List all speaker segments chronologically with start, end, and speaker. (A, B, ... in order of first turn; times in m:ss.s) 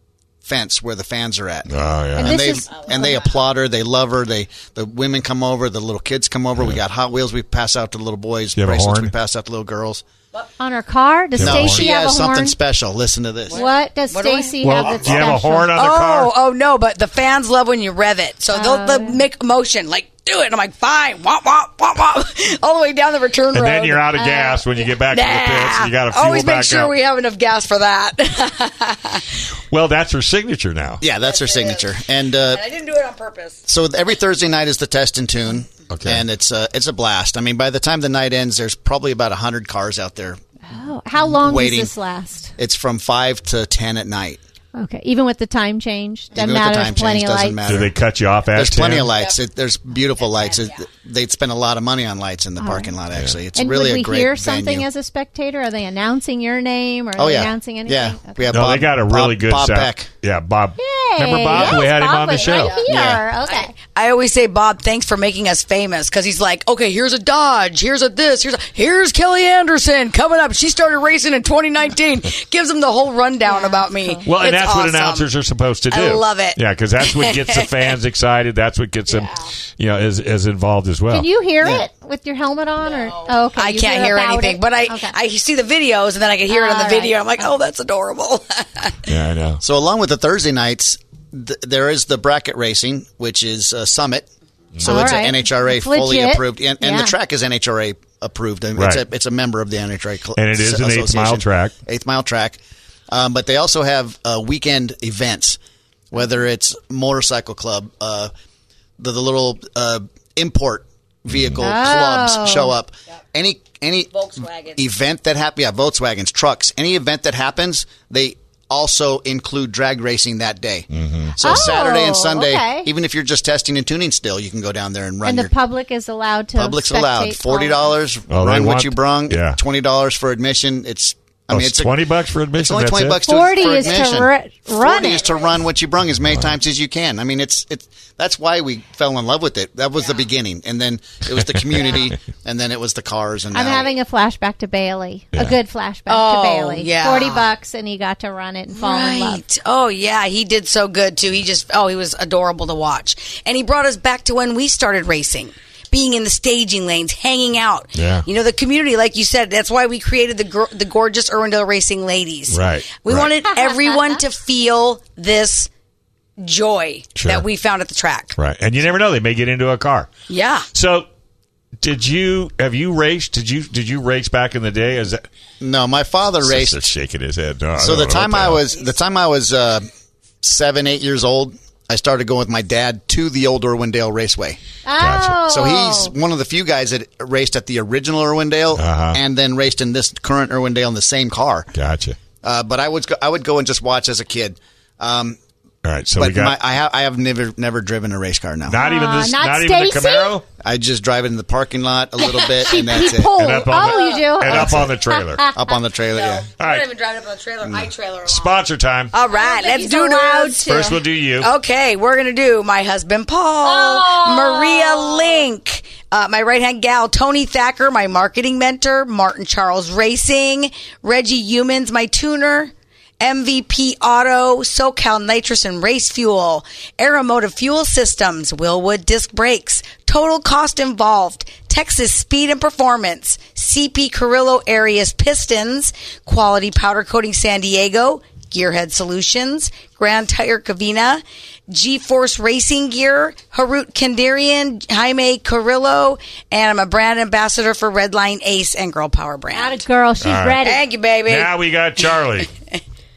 0:00.4-0:10.0 A
0:01.7-0:02.4 B
0:02.2-0:03.0 C
0:08.6-0:09.1 B
0:10.6-0:12.6 C
0:11.3-0:11.9 B
0:11.4-0:13.6 A
0:13.5-0:15.7 C
0:13.5-0:15.1 D
0:14.6-0:16.3 B
0:15.7-0:29.2 D
0:18.5-0:19.2 C
0:23.5-0:26.9 B
0:29.7-0:31.0 B
0:31.0-0:32.7 A
0:31.2-0:33.6 D
0:33.6-0:40.4 A
0:35.9-0:36.2 B
0:40.7-0:42.5 C
0:41.2-0:41.9 A
0:42.6-0:44.4 A
0:44.7-0:47.6 C
0:46.3-0:47.9 A
0:47.6-0:49.1 B
0:48.5-0:54.8 A
0:50.2-0:50.8 D
0:52.6-0:53.0 C
0:53.5-0:58.6 C
0:57.2-1:00.1 A
0:58.5-1:03.2 B
1:00.8-1:03.8 C
1:02.3-1:02.9 D
1:03.4-1:15.3 D
1:13.4-1:14.2 C
1:14.2-1:21.8 B
1:15.9-1:17.8 D
1:19.1-1:19.4 D
1:21.1-1:25.2 C
1:22.8-1:29.0 D
1:26.5-1:27.4 C
1:29.1-1:29.6 B
1:29.6-1:34.3 A
1:34.7-1:35.2 B
1:34.8-1:45.6 A
1:34.8-1:37.1 C
1:40.4-1:41.7 B
1:46.1-1:48.3 A
1:49.0-2:05.5 A
1:51.3-1:51.6 B
1:51.6-1:52.7 C
1:54.1-1:54.8 D
2:00.9-2:01.8 B
2:01.4-2:02.9 C
2:05.2-2:08.0 C
2:06.6-2:12.0 A
2:08.3-2:09.6 B
2:11.5-2:13.2 B
2:12.5-2:23.9 A
2:13.2-2:15.3 C
2:16.2-2:16.5 B
2:21.8-2:22.0 B
2:23.5-2:29.4 C
2:26.1-2:27.4 D
2:28.7-2:45.7 D
2:37.9-2:38.2 B
2:42.5-2:43.3 B
2:43.5-2:44.2 C
2:46.4-2:48.3 D
2:47.2-2:47.4 B
2:48.4-2:50.1 B
2:50.3-2:50.7 D
2:50.7-2:51.1 B
2:51.8-2:55.3 B
2:55.6-2:56.8 A
2:56.4-2:58.6 B
2:57.8-2:59.9 A
3:00.4-3:04.6 A
3:04.8-3:06.1 C
3:05.0-3:05.4 B
3:05.5-3:11.7 A
3:08.8-3:09.2 B
3:11.7-3:12.2 B
3:12.4-3:15.4 A
3:15.8-3:16.6 B
3:16.1-3:18.8 A
3:18.7-3:20.4 B
3:18.8-3:20.4 C
3:20.6-3:23.4 A
3:22.4-3:25.8 C
3:23.3-3:25.4 B
3:25.5-3:26.5 A
3:26.1-4:09.8 D
3:26.6-3:26.9 B
3:27.6-3:27.9 A
3:28.2-3:29.1 B
3:29.3-3:31.0 C
3:30.6-3:31.5 B
3:33.6-3:35.4 C
4:09.5-4:10.8 C
4:10.2-4:10.6 B
4:10.6-4:12.0 D
4:11.2-4:12.5 B